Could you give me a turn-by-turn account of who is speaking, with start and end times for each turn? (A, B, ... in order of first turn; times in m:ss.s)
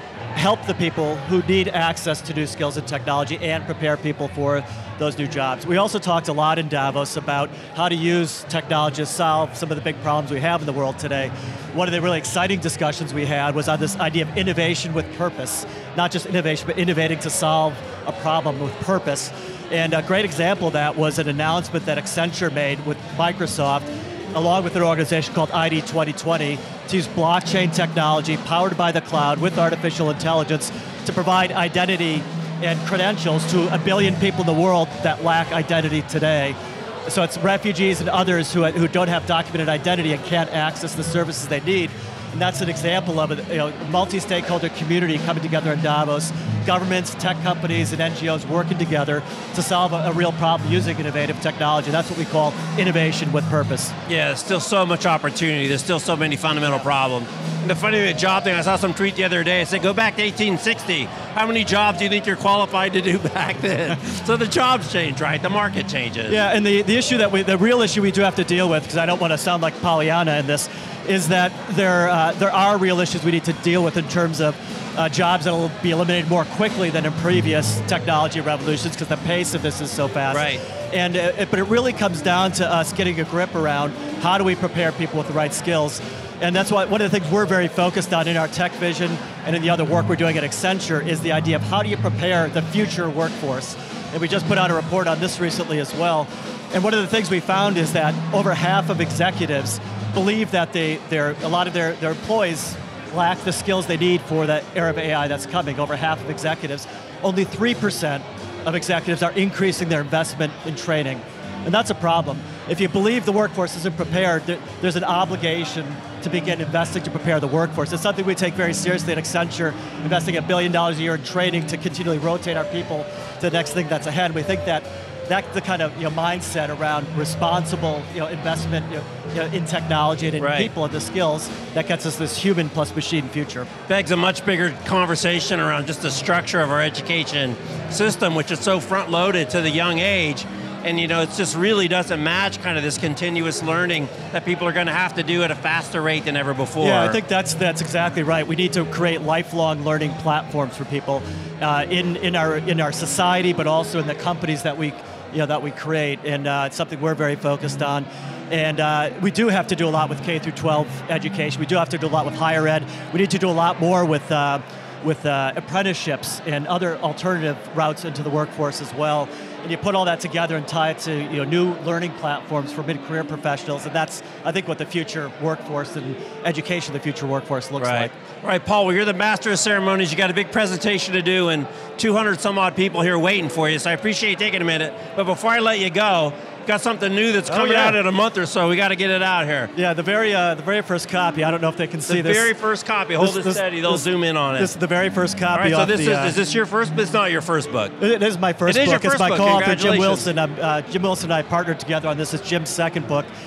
0:00.3-0:53.9 A
0:54.1-1:06.4 B
1:06.3-2:13.7 A
1:20.3-1:20.6 B
2:10.4-2:10.7 B
2:13.9-2:27.2 B
2:26.8-2:58.1 A
2:57.8-3:09.7 B
3:07.4-3:08.0 A
3:09.7-3:12.5 A
3:12.1-3:14.7 B
3:13.2-3:16.4 A
3:15.5-3:18.0 B
3:18.0-3:23.3 A
3:18.6-3:20.3 B